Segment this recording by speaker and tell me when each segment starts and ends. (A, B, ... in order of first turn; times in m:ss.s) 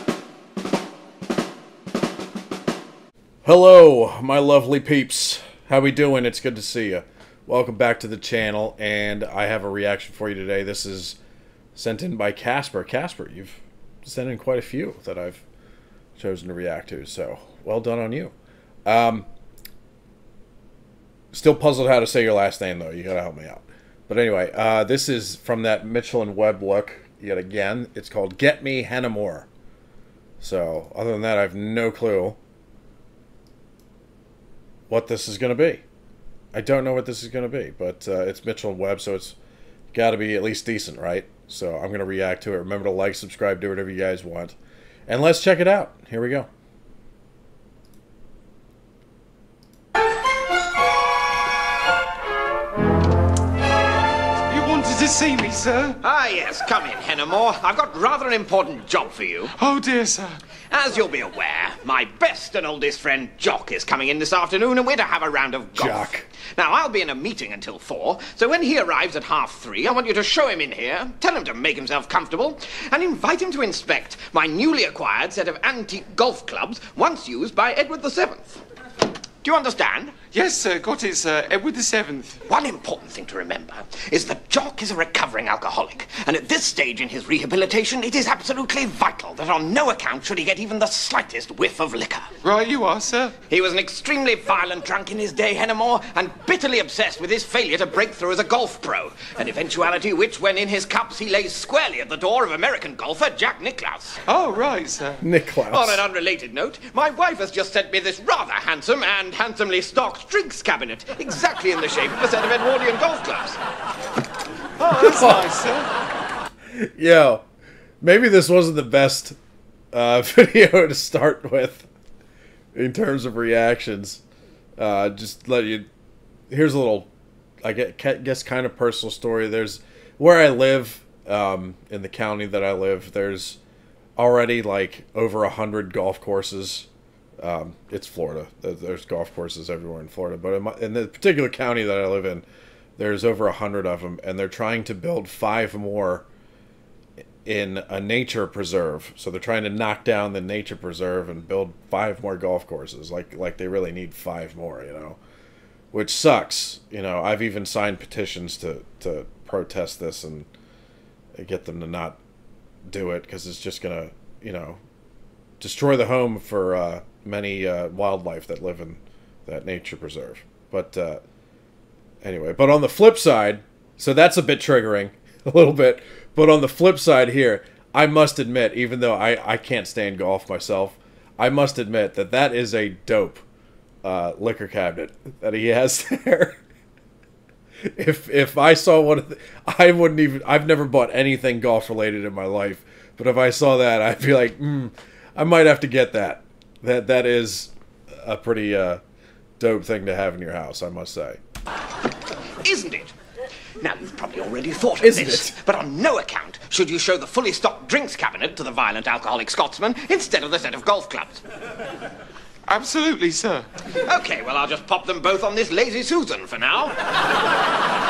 0:03.4-0:11.2 A
0:11.7-0:15.4 A
0:16.2-0:18.3 A
0:18.8-0:19.3 A
0:21.3-0:29.5 A
0:30.4-0:32.4 A
0:34.9-0:35.8 A
0:36.5-0:39.4 A
0:39.9-0:44.6 A
0:45.1-0:46.5 A
0:54.5-0:56.0 B
0:56.0-0:59.5 C
0:59.6-1:00.4 B
1:00.7-1:18.6 C
1:05.8-1:06.3 A
1:19.4-1:20.2 C
1:20.3-1:22.4 B
1:22.5-1:32.3 C
1:32.4-1:33.3 B
1:33.5-1:44.2 C
1:44.3-1:45.2 B
1:45.2-1:46.0 A
1:45.7-1:53.6 C
1:54.8-1:55.9 B
1:55.0-1:55.4 A
1:56.7-1:57.4 A
1:58.0-1:59.4 A
1:59.9-2:01.9 A
2:02.7-2:04.2 A
2:04.8-2:05.9 A
2:06.5-2:07.1 A
2:07.6-2:13.6 A
2:14.2-2:16.9 A
2:17.4-2:22.4 A
2:23.0-2:26.2 A
2:27.4-2:35.2 A
2:35.9-2:40.5 A
2:41.4-2:42.2 A
2:42.9-2:44.8 A
2:45.6-2:51.2 A
2:52.2-3:03.4 A
3:04.0-3:06.6 A
3:07.8-3:19.0 A
3:19.6-3:21.4 A
3:22.6-3:23.1 C
3:23.8-3:31.4 C
3:25.0-3:25.5 A
3:32.7-3:33.7 B
3:34.0-3:36.9 C